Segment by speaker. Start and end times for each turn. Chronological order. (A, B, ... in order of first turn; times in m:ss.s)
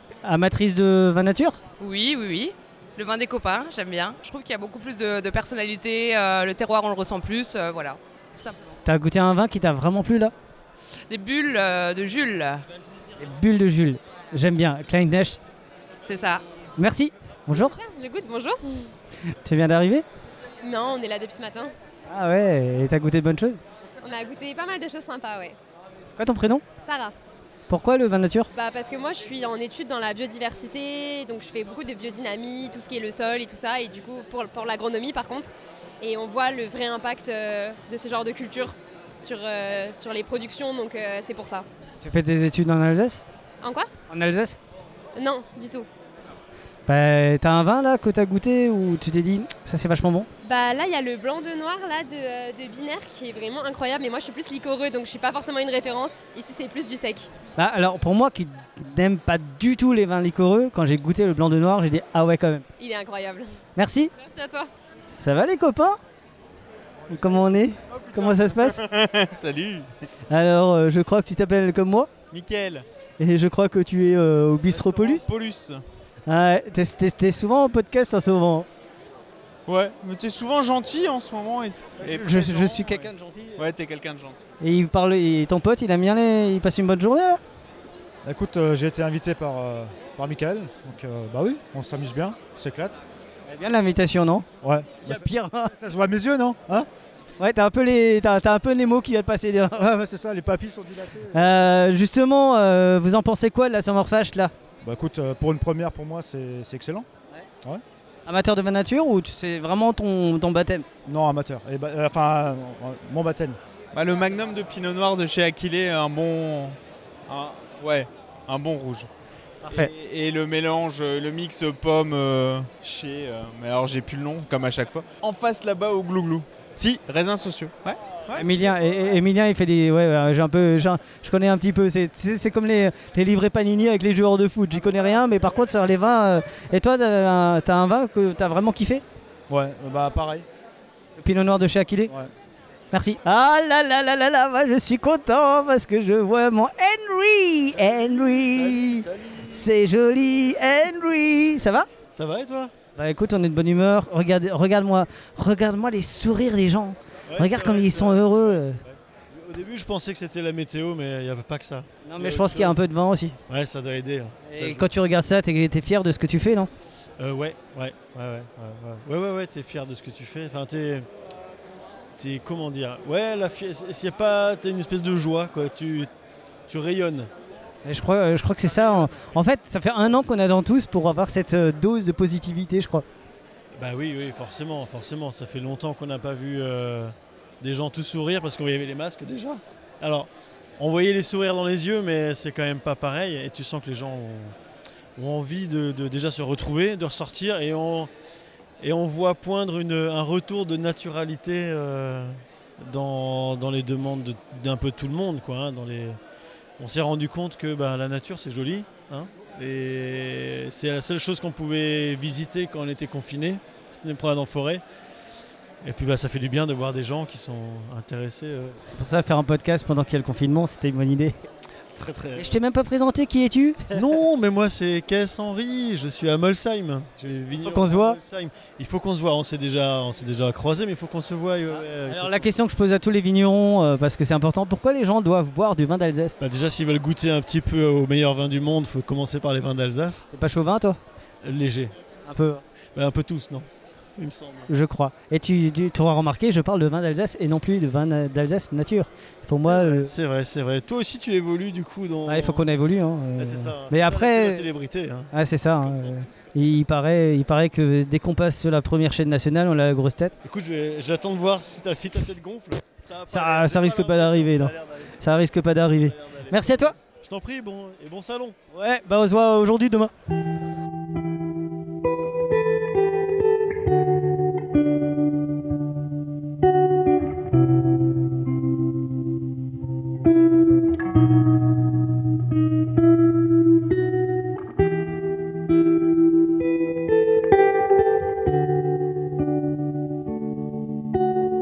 0:00.2-0:01.6 A
0:01.8-0:08.8 B
0:08.8-0:10.3 A
0:11.1-0:12.6 B
0:13.2-0:15.4 A
0:16.0-0:16.4 B
0:16.8-0:17.8 A
0:17.5-0:18.9 C
0:19.4-0:20.0 A
0:20.6-0:21.7 C
0:22.1-0:23.6 A
0:24.0-0:25.6 C
0:26.2-0:26.6 A
0:26.8-0:27.1 C
0:27.7-0:28.5 A
0:28.5-0:41.7 C
0:42.0-0:43.2 A
0:43.6-0:43.9 C
0:44.1-0:44.6 A
0:45.2-0:45.9 C
0:46.9-0:50.3 A
0:50.4-0:57.3 C
0:57.6-1:02.6 A
1:02.8-1:03.5 C
1:03.8-1:04.1 A
1:04.2-1:04.7 C
1:05.1-1:06.0 A
1:07.1-1:08.8 A
1:07.9-1:09.9 D
1:10.3-1:12.1 A
1:12.3-1:12.8 D
1:13.2-1:15.2 A
1:14.7-1:15.8 D
1:16.3-1:18.7 A
1:19.7-1:24.4 D
1:22.0-1:23.6 A
1:24.6-1:27.4 A
1:28.2-1:33.0 E
1:33.5-1:34.5 A
1:34.6-1:36.9 E
1:35.0-1:35.7 A
1:37.4-1:39.8 A
1:39.7-1:41.4 E
1:41.3-1:44.5 A
1:44.8-1:47.1 E
1:48.3-1:50.9 A
1:51.1-1:53.6 E
1:53.9-1:59.1 D
1:59.7-2:08.4 D
2:08.3-2:19.0 A
2:19.5-2:20.5 E
2:21.2-2:22.1 A
2:22.9-2:31.9 A
2:27.9-2:29.4 F
2:32.1-2:32.7 F
2:33.0-2:38.8 A
2:37.3-2:42.8 F
2:42.0-2:43.4 A
2:43.5-2:44.9 F
2:44.5-2:46.7 A
2:47.2-2:51.1 F
2:52.2-2:56.1 F
2:56.7-2:57.3 F
2:57.8-3:03.0 A
3:03.7-3:14.5 F
3:15.2-3:18.1 F
3:18.8-3:26.2 F
3:26.8-3:34.8 F
3:35.8-3:38.8 F
3:38.8-3:41.4 A
3:42.0-3:42.5 F
3:42.4-3:44.0 A
3:43.9-3:52.5 F
3:47.6-3:48.2 A
3:51.7-3:56.4 A
3:56.4-4:00.3 F
4:00.3-4:01.0 A
4:01.4-4:01.9 F
4:02.3-4:02.6 A
4:03.0-4:03.7 F
4:04.2-4:04.7 F
4:04.7-4:10.1 A
4:09.6-4:12.6 F
4:12.3-4:14.6 A
4:13.4-4:15.3 F
4:15.3-4:20.3 A
4:16.0-4:16.3 F
4:20.4-4:25.2 F
4:23.3-4:27.0 A
4:26.0-4:28.6 F
4:28.7-4:30.1 A